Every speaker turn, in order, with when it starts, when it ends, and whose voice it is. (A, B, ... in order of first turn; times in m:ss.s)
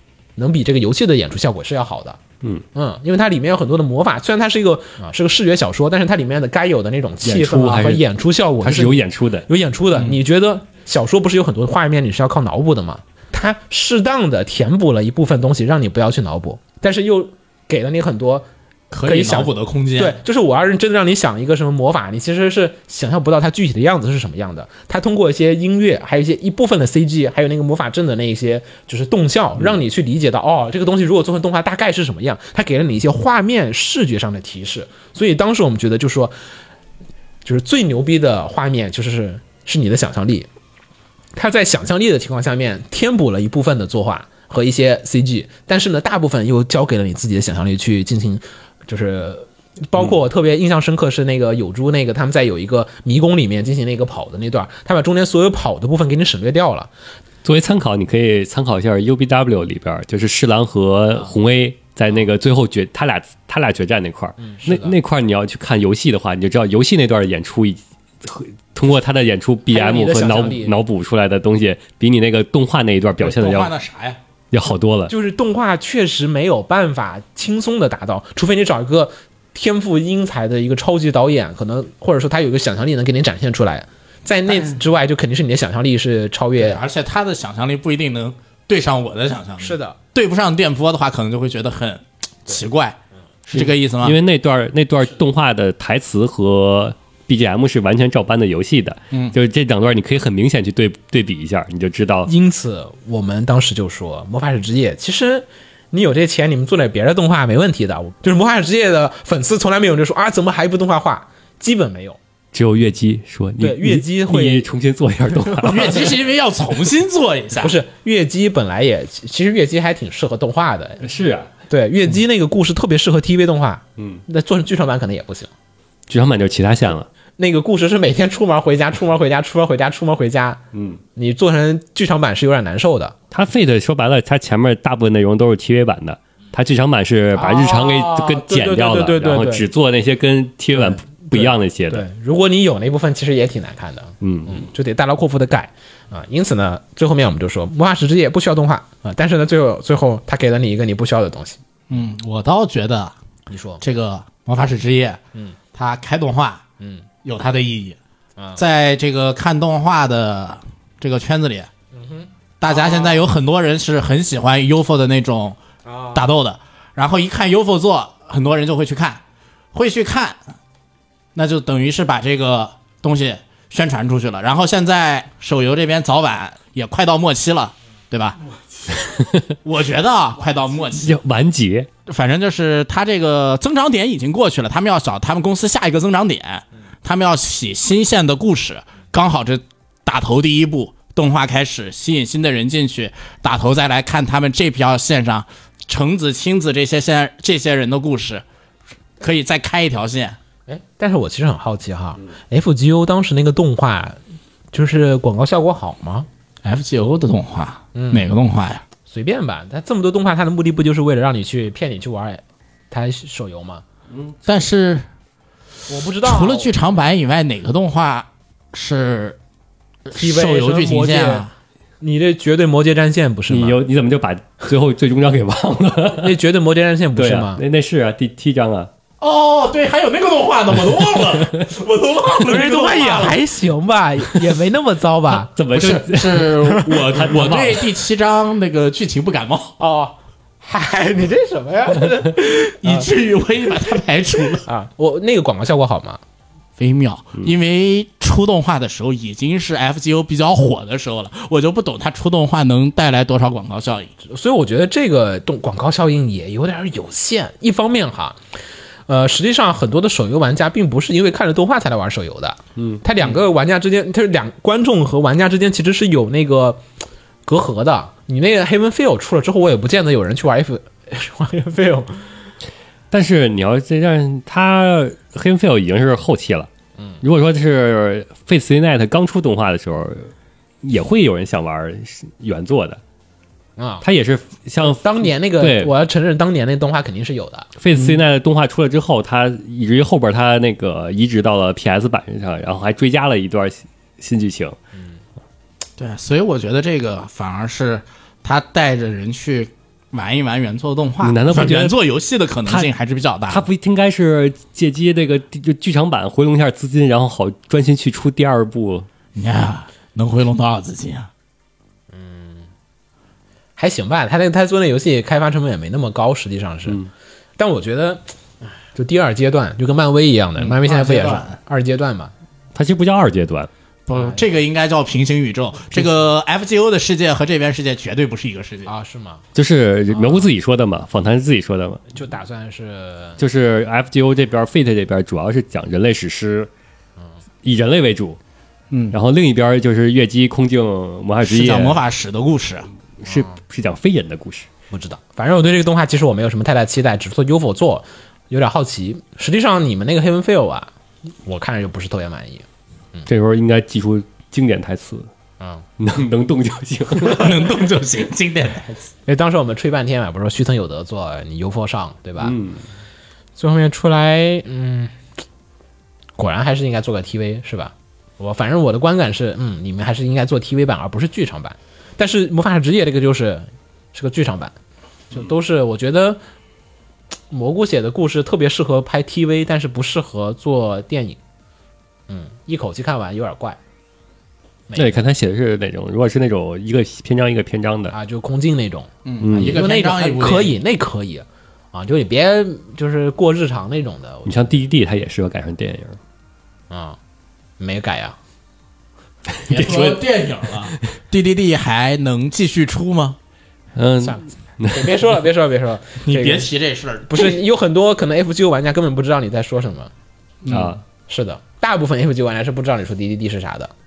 0:00.4-0:02.2 A
0:02.7-0:18.5 A
0:07.2-0:08.0 B
0:08.6-0:09.5 B
0:18.9-0:20.2 C
0:19.0-0:36.4 A
0:37.4-0:40.5 A
0:41.4-0:56.9 A
0:57.4-1:13.7 B
1:04.4-1:05.0 A
1:09.7-1:10.8 A
1:13.2-1:14.2 C
1:14.5-1:15.1 B
1:15.1-1:26.8 A
1:26.6-1:34.2 C
1:29.6-1:30.0 A
1:33.5-1:42.3 B
1:39.1-1:39.4 C
1:42.3-1:52.2 A
1:52.5-1:56.1 B
1:53.6-1:54.7 A
1:55.5-1:56.0 A
1:55.6-1:57.8 C
1:57.6-2:01.0 A
2:01.0-2:01.5 B
2:01.7-2:05.5 A
2:06.1-2:07.1 B
2:07.4-2:10.6 A
2:10.7-2:11.0 B
2:11.2-2:13.2 A
2:13.3-2:22.0 B
2:17.4-2:19.6 A
2:20.8-2:31.6 A
2:24.2-2:24.6 B
2:31.9-2:33.2 C
2:33.5-2:33.8 A
2:33.8-2:35.2 C
2:35.7-2:36.6 C
2:36.8-2:37.1 A
2:37.2-2:38.0 C
2:38.6-2:41.7 C
2:41.9-2:43.2 A
2:42.6-2:45.6 C
2:45.9-2:46.3 A
2:46.1-2:49.2 C
2:49.7-2:50.4 C
2:51.4-2:58.4 C
2:58.9-2:59.4 B
2:59.6-3:01.2 C
3:01.0-3:01.9 B
3:02.1-3:18.4 C
3:19.2-3:20.4 C
3:20.7-3:24.2 A
3:24.7-3:26.3 A
3:26.6-3:28.8 C
3:27.9-3:28.3 A
3:29.1-3:33.8 A
3:34.1-3:34.4 B
3:34.4-3:35.1 C
3:35.9-3:36.8 A
3:36.2-3:39.4 C
3:40.1-3:41.5 A
3:40.1-3:41.5 C
3:42.0-3:43.8 A
3:43.5-3:46.4 B
3:46.2-3:47.6 A
3:47.2-3:48.9 B
3:49.2-3:53.4 C
3:52.5-3:55.5 A
3:55.5-3:57.8 B
3:55.7-3:59.8 C
3:56.7-3:57.2 A
3:59.8-4:03.1 A
4:02.7-4:04.7 C
4:04.6-4:06.2 A
4:06.8-4:14.1 C
4:14.2-4:18.4 A
4:19.1-4:26.8 A
4:27.5-4:32.3 A
4:33.1-4:36.7 B
4:37.2-4:40.3 B
4:40.8-4:43.0 B
4:43.8-4:44.0 A
4:44.0-4:45.9 B
4:44.8-4:47.7 A
4:47.8-4:54.8 B
4:56.0-5:03.7 C
5:01.2-5:02.0 B
5:03.5-5:09.1 B
5:09.4-5:11.3 C
5:12.1-5:12.7 A
5:13.8-5:17.0 A
5:17.6-5:22.3 A
5:20.6-5:21.6 C
5:22.8-5:23.7 B
5:24.1-5:28.9 C
5:24.1-5:24.4 A
5:28.9-5:29.4 A
5:29.6-5:32.0 B
5:32.1-5:33.4 A
5:33.4-5:36.7 B
5:37.6-5:38.4 B
5:38.9-5:39.2 C
5:39.1-5:42.0 B
5:41.4-5:42.9 C
5:43.2-5:44.7 B
5:43.3-5:43.5 A
5:44.9-5:50.9 A
5:51.5-5:53.3 A
5:53.3-5:55.3 B
5:56.0-5:57.6 B
5:57.2-5:59.0 C
5:59.3-6:02.6 A
6:02.4-6:02.8 B
6:03.6-6:05.2 A
6:06.4-6:14.8 A
6:15.3-6:16.4 A
6:17.5-6:21.4 A
6:22.3-6:23.8 A
6:24.9-6:25.2 A
6:25.0-6:28.2 B
6:28.1-6:34.8 A
6:29.2-6:30.8 C
6:29.4-6:29.8 B
6:34.5-6:36.2 B
6:36.9-6:37.2 A
6:37.8-6:38.4 A
6:39.7-6:40.2 B
6:39.7-6:43.4 C
6:44.0-6:45.1 B
6:44.2-6:46.7 A
6:46.2-6:47.6 C
6:47.3-6:50.1 A
6:50.6-6:51.0 C
6:50.7-6:51.0 B
6:51.3-6:53.9 A